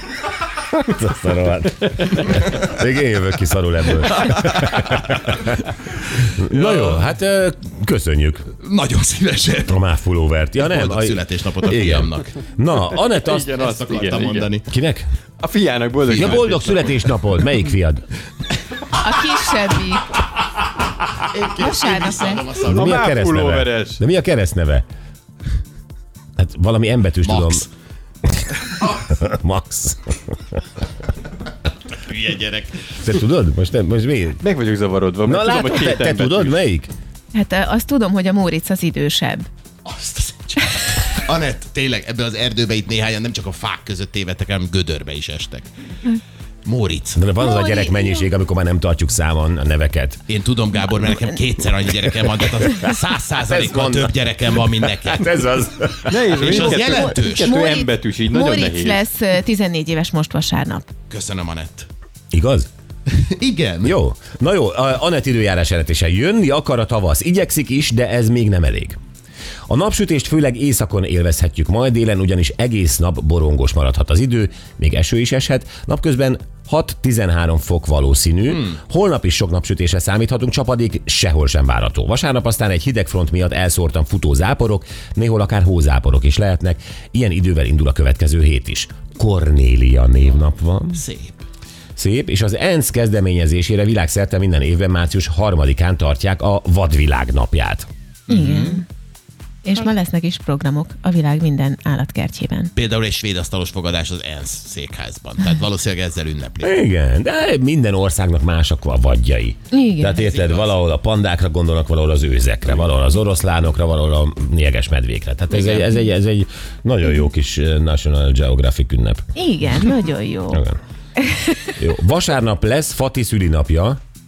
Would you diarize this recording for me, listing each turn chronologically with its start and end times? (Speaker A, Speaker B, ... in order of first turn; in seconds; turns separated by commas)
Speaker A: 0.7-5.5, Speaker B: 4.2-5.4, Speaker B: 6.3-7.0, Speaker A: 6.4-8.5, Speaker B: 8.6-9.8, Speaker A: 9.7-13.5, Speaker B: 10.6-12.3, Speaker C: 13.2-14.5, Speaker B: 13.5-14.7, Speaker A: 14.7-15.1, Speaker C: 15.4-17.1, Speaker A: 16.1-18.0, Speaker B: 16.1-16.5, Speaker D: 18.9-20.2, Speaker B: 21.2-23.1, Speaker D: 21.6-22.4, Speaker C: 22.6-24.0, Speaker A: 22.7-24.8, Speaker A: 26.4-27.7, Speaker B: 27.2-27.6, Speaker A: 28.9-30.4, Speaker B: 31.9-32.9, Speaker A: 33.0-34.4, Speaker C: 34.4-36.6, Speaker A: 35.2-36.9, Speaker D: 37.3-39.5, Speaker B: 39.9-45.7, Speaker B: 46.6-47.2, Speaker A: 47.2-50.2, Speaker D: 47.4-48.3, Speaker B: 50.3-55.4, Speaker A: 53.4-54.1, Speaker A: 54.8-56.6, Speaker C: 56.1-59.0, Speaker B: 56.3-57.5, Speaker D: 56.6-60.9, Speaker B: 61.1-61.9, Speaker A: 62.3-62.7, Speaker B: 63.1-64.0, Speaker A: 63.8-69.0, Speaker A: 69.7-91.0, Speaker B: 90.9-91.4, Speaker A: 92.0-97.9, Speaker B: 98.3-98.8, Speaker D: 98.3-98.8, Speaker D: 99.6-102.7, Speaker B: 102.8-106.7, Speaker A: 106.6-119.3, Speaker D: 109.7-110.2, Speaker B: 110.2-110.8, Speaker B: 115.5-115.8, Speaker D: 119.4-120.6, Speaker D: 121.3-121.5, Speaker A: 121.8-124.0